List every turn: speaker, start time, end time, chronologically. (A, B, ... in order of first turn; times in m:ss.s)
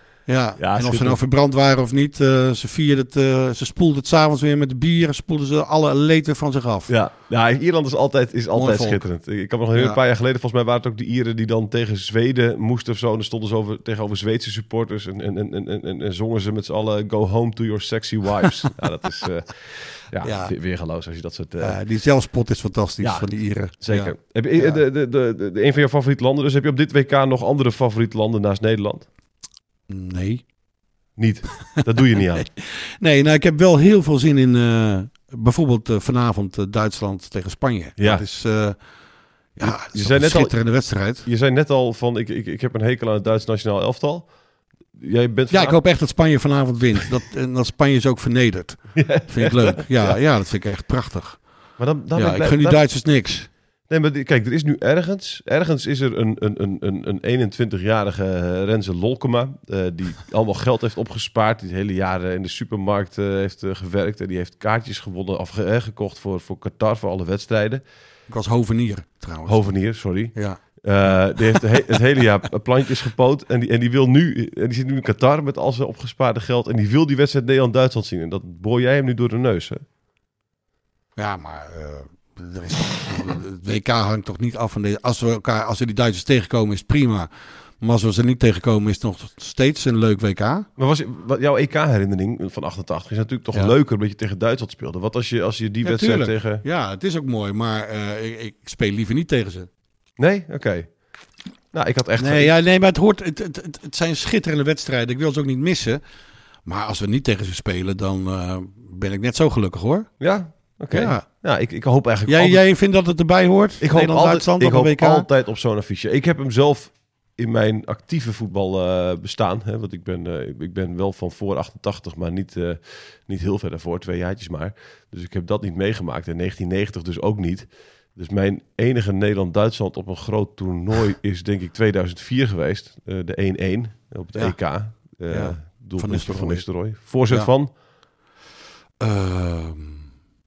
0:00.2-0:06.9 A
0:00.6-0:01.2 B
0:06.9-0:21.8 B
0:08.5-0:09.0 A
0:09.7-0:10.0 A
0:20.2-0:20.5 A
0:21.6-0:24.8 A
0:23.0-0:23.3 B
0:23.8-0:29.1 B
0:29.9-0:30.4 A
0:31.2-0:32.5 B
0:32.3-0:38.8 A
0:38.0-0:38.2 B
0:39.6-0:41.3 A
0:39.6-0:40.5 B
0:41.2-0:44.3 B
0:44.9-0:45.8 B
0:45.5-0:51.4 A
0:48.9-0:50.2 B
0:51.8-0:52.8 B
0:52.1-0:53.5 A
0:53.9-1:07.8 B
1:08.3-1:09.7 A
1:09.5-1:19.8 B
1:10.3-1:11.6 A
1:21.2-1:27.3 A
1:27.8-1:30.7 A
1:30.8-1:36.6 B
1:35.8-1:39.7 A
1:40.2-1:40.9 B
1:41.7-1:42.5 B
1:42.2-1:46.0 A
1:46.6-1:50.1 A
1:50.2-1:52.6 B
1:50.9-1:51.2 A
1:52.2-1:55.3 A
1:53.8-2:17.7 B
2:14.3-2:17.5 A
2:19.0-2:20.1 A